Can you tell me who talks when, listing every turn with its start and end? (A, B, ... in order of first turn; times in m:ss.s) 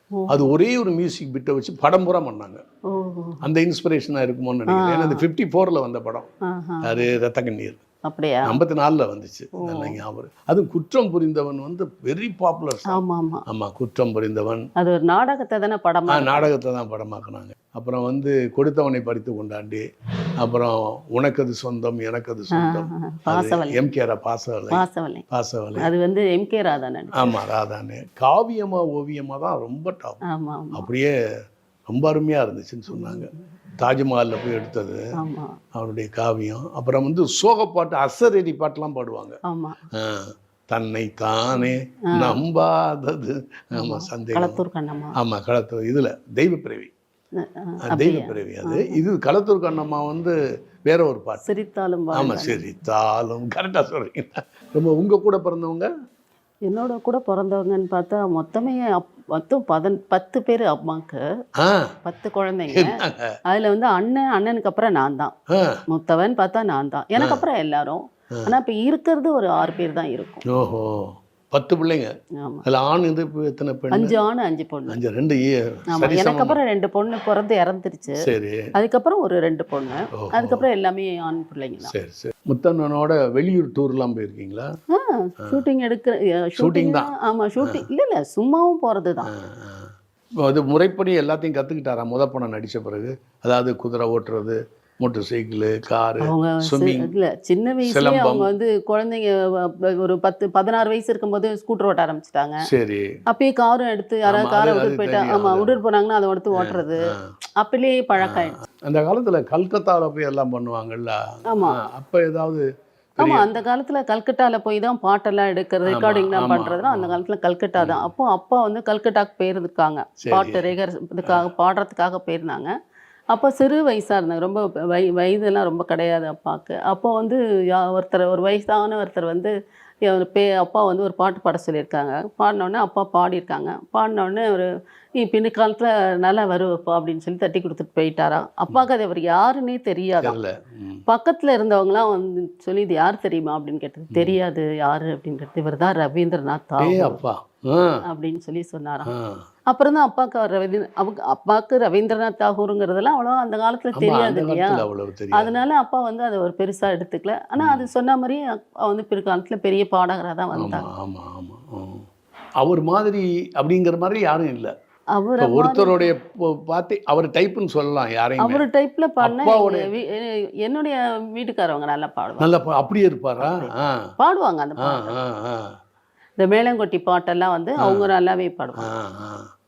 0:00.1-0:00.5 A
0:00.3-0:02.6 B
0:02.9-0:03.4 A
0:03.4-0:06.3 B
0:04.7-0:05.2 A
0:06.4-0:07.1 A
0:06.8-0:07.8 B
0:08.0-0:08.6 A
0:08.4-0:14.7 B
0:09.5-0:10.0 A
0:12.9-0:13.4 A
0:14.8-0:16.5 A
0:16.1-0:19.8 B
0:20.4-0:25.9 B
0:22.5-0:23.8 A
0:24.7-0:25.2 A
0:25.8-0:27.4 A
0:27.1-0:30.2 B
0:30.3-0:30.9 A
0:30.7-0:31.1 B
0:31.9-0:35.0 B
0:35.2-0:35.6 A
0:35.7-0:39.4 B
0:39.4-0:39.8 A
0:39.9-0:44.6 B
0:42.1-0:42.4 A
0:43.8-0:45.2 A
0:45.2-0:46.9 B
0:47.4-0:49.0 A
0:47.9-0:50.3 B
0:50.9-0:51.4 B
0:51.4-0:52.6 A
0:52.1-0:55.9 B
0:56.6-1:01.2 A
1:01.6-1:01.9 B
1:02.0-1:03.0 A
1:02.7-1:03.3 B
1:03.5-1:05.3 A
1:05.5-1:05.8 B
1:05.9-1:10.4 A
1:07.2-1:07.4 B
1:10.5-1:12.1 B
1:12.4-1:12.6 A
1:12.6-1:14.2 B
1:13.9-1:15.0 A
1:14.9-1:16.6 B
1:15.9-1:18.2 A
1:18.2-1:18.7 B
1:18.7-1:21.9 A
1:20.2-1:20.6 B
1:21.8-1:24.7 B
1:24.9-1:29.3 A
1:26.6-1:27.8 B
1:29.3-1:29.9 B
1:30.4-1:37.1 B
1:36.2-1:42.6 A
1:37.8-1:38.5 B
1:42.6-1:43.1 B
1:43.3-1:47.1 A
1:44.2-1:45.8 B
1:46.5-1:47.2 B
1:47.6-1:48.6 A
1:48.2-1:52.6 B
1:51.5-1:51.8 A
1:53.2-1:53.5 B
1:53.2-2:02.7 A
1:55.8-1:57.2 B
1:57.8-1:58.1 B
2:00.2-2:00.7 B
2:03.3-2:09.5 A
2:10.0-2:20.4 A
2:20.2-2:21.0 B
2:21.1-2:27.2 A
2:24.1-2:24.4 B
2:26.8-2:28.0 B
2:28.0-2:29.1 A
2:29.0-2:29.4 B
2:29.7-2:40.9 A
2:33.9-2:35.5 B
2:37.6-2:37.9 B
2:40.5-2:42.0 B
2:42.6-2:44.7 B
2:45.2-2:46.1 A
2:45.4-2:48.6 B
2:48.4-2:52.5 A
2:49.2-2:49.9 B
2:52.4-2:54.0 B
2:53.4-2:55.2 A
2:54.8-2:55.7 B
2:56.4-2:58.9 A
2:57.8-2:58.1 B
2:58.8-2:59.5 B